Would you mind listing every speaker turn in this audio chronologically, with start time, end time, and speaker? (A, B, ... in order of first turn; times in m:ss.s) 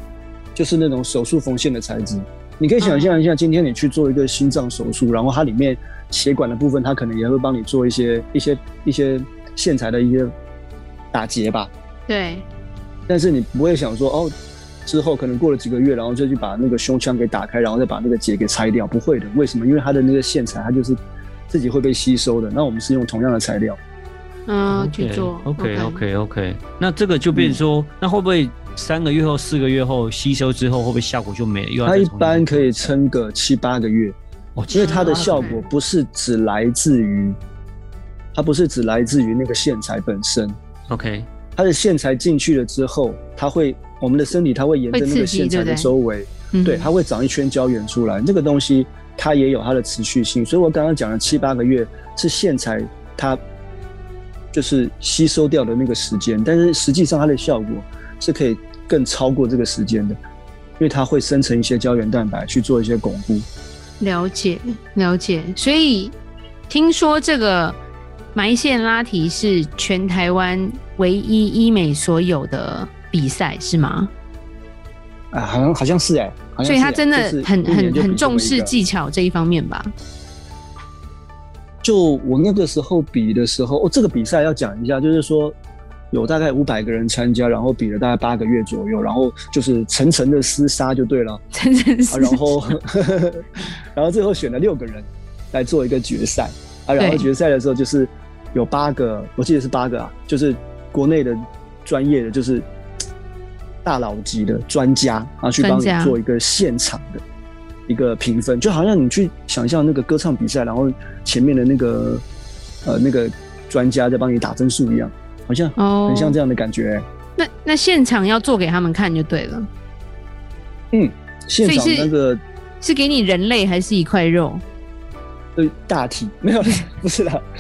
0:00.6-0:10.3 A
0:02.8-0:03.2 B
0:11.1-0:11.7 A
0:12.1-0:12.5 B
0:13.1-0:14.3 A
0:14.9-0:21.0 A
0:21.5-0:23.8 A
0:24.5-0:26.0 B
0:24.7-0:32.9 C
0:27.3-0:27.6 A
0:31.8-0:34.2 A
0:34.6-0:35.6 C
0:34.7-0:37.4 A
0:34.7-0:35.6 B
0:38.4-0:40.6 A
0:40.9-0:41.3 C
0:41.6-0:53.4 A
0:44.9-0:45.9 B
0:46.5-0:46.9 B
0:54.5-1:00.2 A
1:00.8-1:03.5 A
1:04.0-1:06.2 B
1:06.7-1:07.8 B
1:08.3-1:14.1 B
1:15.3-1:18.7 A
1:16.6-1:19.9 B
1:21.8-1:25.6 A
1:26.1-1:31.4 A
1:31.5-1:32.6 B
1:32.1-1:42.7 A
1:37.0-1:37.3 B
1:43.8-1:47.2 A
1:45.6-1:46.2 B
1:47.9-1:52.2 A
1:52.8-1:57.0 A
1:55.8-1:56.4 B
1:57.4-1:59.7 B
2:00.9-2:02.4 A
2:01.6-2:02.1 B
2:02.8-2:04.6 B
2:05.6-2:07.5 A